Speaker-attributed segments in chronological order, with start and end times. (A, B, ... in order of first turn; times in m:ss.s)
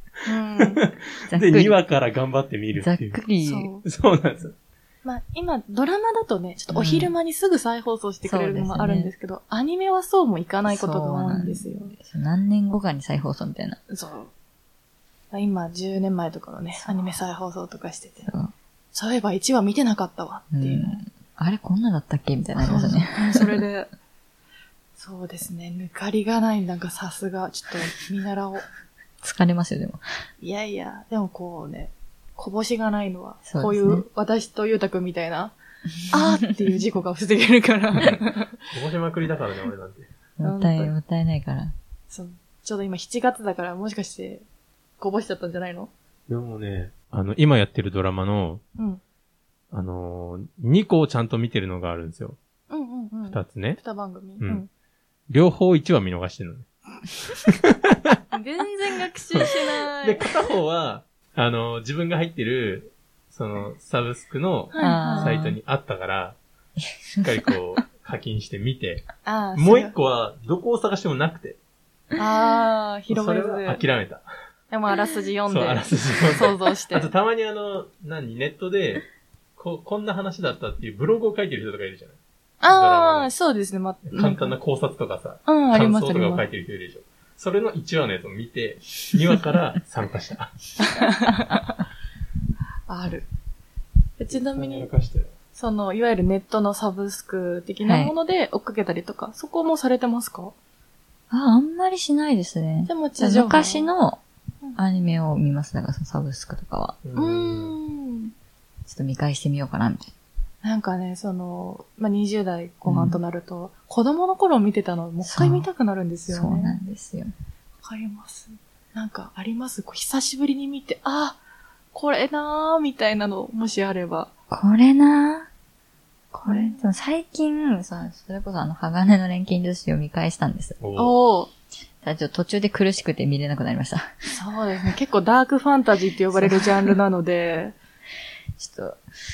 0:00.2-0:00.8 A
0:00.6-0:03.2 B
0:01.3-0:01.8 C
0:02.7-0:03.7 C
0:03.4-0:03.8 A
0:03.8-0:04.6 B
0:05.0-0:11.9 A
0:06.7-0:07.1 C
0:08.2-0:09.1 C
0:10.7-0:13.8 C
0:13.9-0:14.3 A
0:15.3-0:18.3 A
0:16.8-0:17.2 C
0:18.3-0:18.5 C
0:18.9-0:21.0 A
0:20.5-0:23.6 C
0:22.6-0:23.9 A
0:25.0-0:28.7 A
0:29.2-0:30.0 C
0:30.4-0:35.6 A
0:33.4-0:34.1 C
0:36.1-0:38.6 A
0:38.0-0:40.1 B
0:40.4-0:41.7 C
0:40.4-0:40.9 A
0:42.1-0:44.4 A
0:45.0-0:45.9 A
0:46.3-0:48.6 B
0:48.8-0:49.0 A
0:49.7-0:52.4 B
0:52.7-0:54.7 A
0:53.3-0:53.8 B
0:55.3-0:56.7 B
0:58.3-1:00.2 A
0:59.9-1:06.4 B
1:04.7-1:05.3 A
1:04.8-1:05.6 C
1:07.2-1:07.5 C
1:07.2-1:11.6 B
1:09.2-1:09.9 A
1:12.2-1:13.8 A
1:13.1-1:14.3 B
1:14.7-1:17.1 A
1:15.5-1:19.1 B
1:19.6-1:23.3 B
1:22.6-1:24.6 A
1:24.1-1:30.6 B
1:25.5-1:26.5 A
1:30.8-1:31.8 A
1:32.9-1:33.3 A
1:34.2-1:34.9 A
1:34.3-1:35.3 B
1:35.6-1:40.5 A
1:37.8-1:38.2 C
1:41.3-1:44.2 C
1:42.9-1:43.9 A
1:44.8-1:47.0 C
1:47.0-1:47.8 B
1:47.2-1:48.3 A
1:48.9-1:50.1 C
1:50.6-1:56.8 A
1:52.9-1:53.2 C
1:55.2-1:55.7 C
1:56.3-1:57.3 C
1:57.8-2:01.4 A
2:01.9-2:04.3 A
2:04.5-2:05.5 C
2:06.3-2:10.8 C
2:06.5-2:06.8 A
2:10.8-2:11.2 B
2:11.0-2:11.5 A
2:12.0-2:14.4 C
2:14.3-2:17.8 A
2:16.3-2:17.0 C
2:18.6-2:19.0 C